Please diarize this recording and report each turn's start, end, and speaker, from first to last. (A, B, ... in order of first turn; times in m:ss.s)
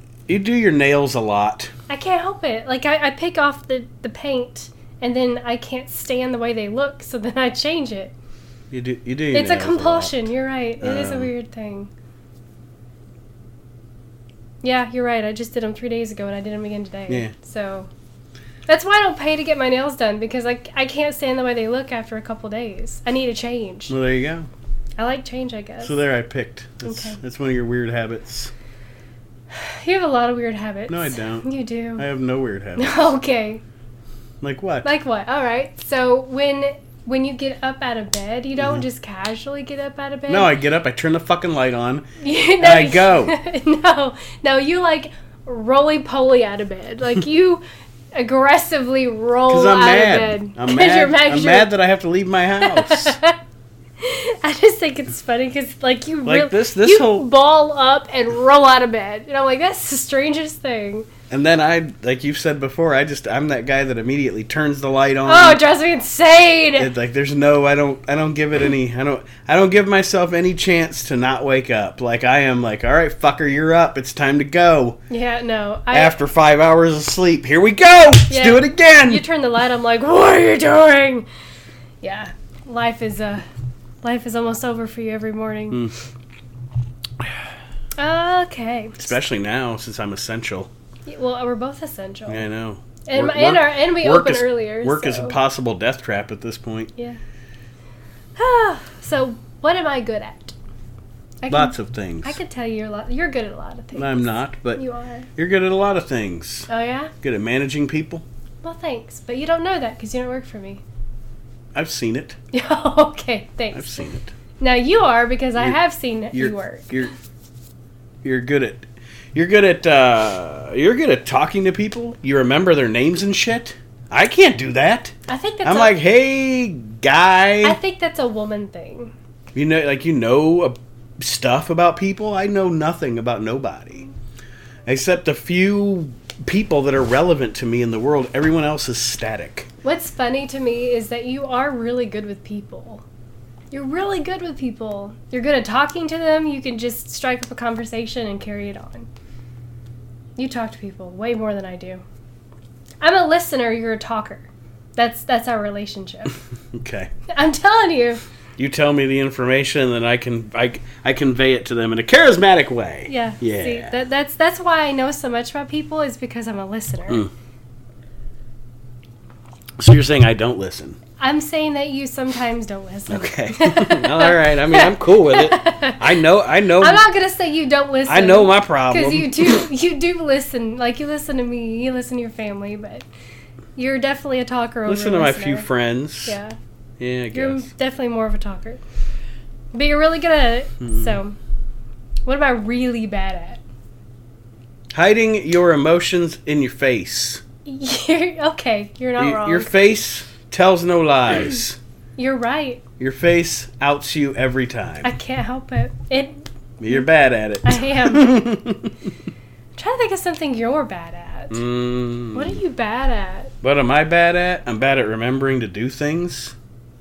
0:00.3-0:01.7 A
0:01.9-0:08.1 B
0:08.7-0:10.3 A
0:09.3-0:11.9 B
0:10.8-0:11.3 A
0:14.6-0:17.9 B
0:18.7-0:23.9 B
0:23.9-0:24.5 A
0:25.0-0:26.0 B
0:25.8-0:28.5 A
0:26.8-0:27.2 B
0:29.5-0:32.1 B
0:30.9-0:33.1 A
0:32.8-0:33.6 B
0:34.4-0:34.9 A
0:34.8-0:40.5 B
0:40.3-0:42.1 A
0:42.2-0:47.6 B
0:42.6-0:43.4 A
0:48.1-0:51.7 B
0:49.5-0:53.2 A
0:52.6-0:53.4 B
0:54.0-1:01.1 B
0:56.2-0:57.3 A
1:01.3-1:05.6 A
1:05.3-1:06.9 B
1:06.8-1:15.0 A
1:15.1-1:16.2 B
1:15.9-1:19.2 A
1:18.3-1:21.3 B
1:22.0-1:23.4 B
1:24.0-1:25.9 B
1:28.0-1:29.1 B
1:29.0-1:30.7 A
1:31.1-1:32.5 B
1:32.3-1:36.9 A
1:33.0-1:35.4 B
1:38.4-1:40.6 B
1:41.4-1:45.3 B
1:41.5-1:42.4 A
1:44.0-1:44.8 A
1:45.4-1:46.7 A
1:46.7-1:47.1 B
1:47.2-1:48.2 A
1:48.6-1:50.8 B
1:51.8-1:52.4 A
1:52.5-1:54.0 B
1:53.7-1:54.3 A
1:54.6-1:56.9 B
1:56.3-1:57.1 A
1:58.2-2:05.1 A
2:05.3-2:06.0 B
2:05.6-2:07.8 A
2:07.6-2:09.1 B
2:09.5-2:14.1 A
2:14.9-2:19.7 A
2:19.8-2:23.0 B
2:23.7-2:29.1 B
2:30.4-2:32.0 B
2:33.0-2:36.4 B
2:36.7-2:37.1 A
2:37.3-2:38.2 B
2:38.6-2:44.0 A
2:43.1-2:47.3 B
2:49.8-2:51.0 A
2:51.2-2:56.2 B
2:53.1-2:57.0 A
2:56.8-3:03.0 B
2:58.1-2:59.7 A
3:03.8-3:05.7 B
3:04.9-3:06.4 A
3:06.3-3:06.6 B
3:07.0-3:07.7 A
3:07.3-3:08.8 B
3:09.7-3:11.4 B
3:10.9-3:11.2 A
3:12.3-3:13.6 B
3:14.9-3:17.4 A
3:17.7-3:19.7 B
3:19.2-3:21.8 A
3:22.2-3:22.8 B
3:23.0-3:25.1 A
3:25.0-3:27.0 B
3:26.8-3:29.1 A
3:27.6-3:28.4 B
3:29.8-3:31.6 B
3:31.5-3:32.6 A
3:32.3-3:33.5 B
3:33.6-3:36.6 A